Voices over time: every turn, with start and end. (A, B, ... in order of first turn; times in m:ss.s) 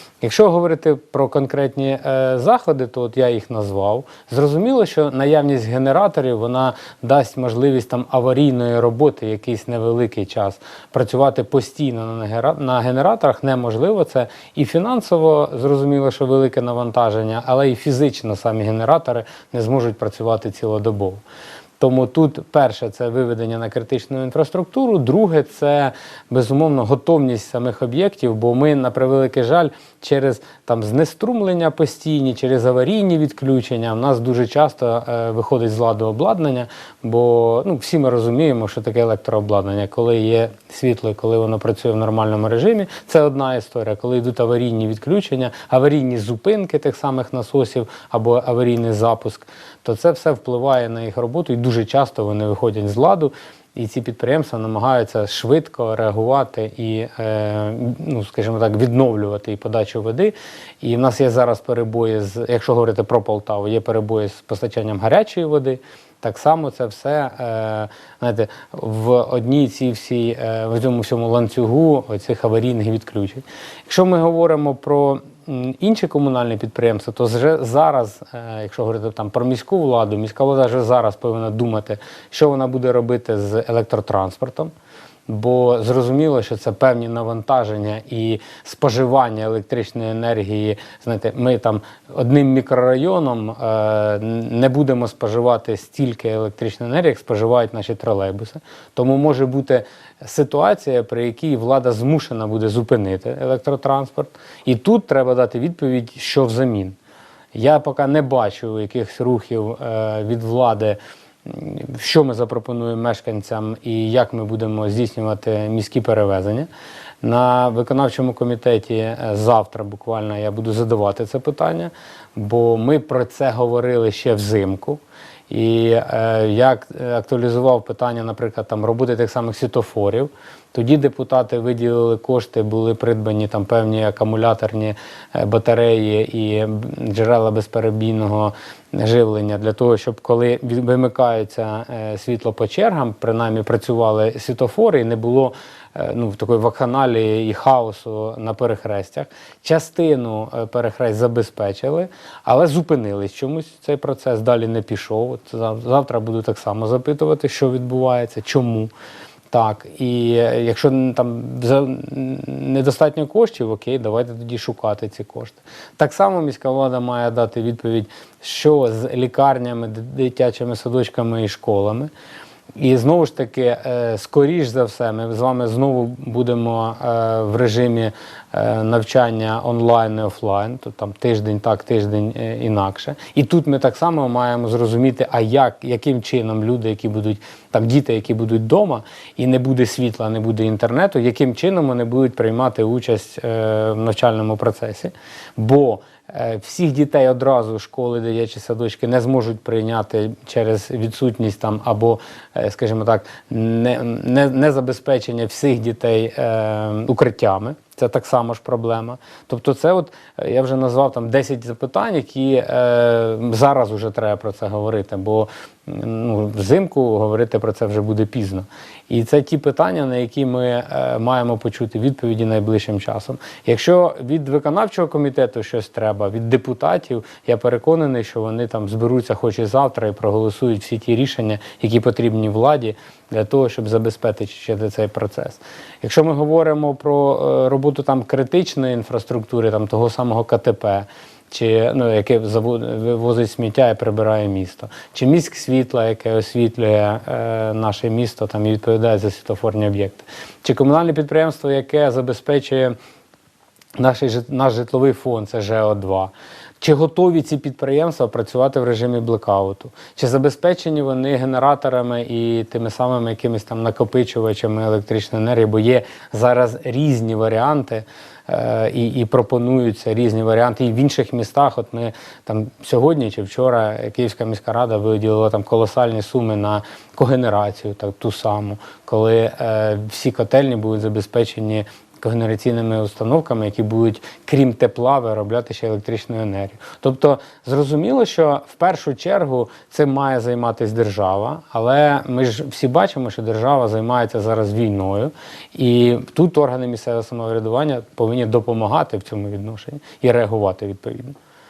0:00.2-0:21.2 A
0:21.8-1:24.7 A
1:25.3-1:47.0 A
1:47.5-1:56.7 A
1:57.2-2:38.9 A
2:39.5-2:52.1 A
2:52.8-4:12.9 A
4:14.0-5:01.3 A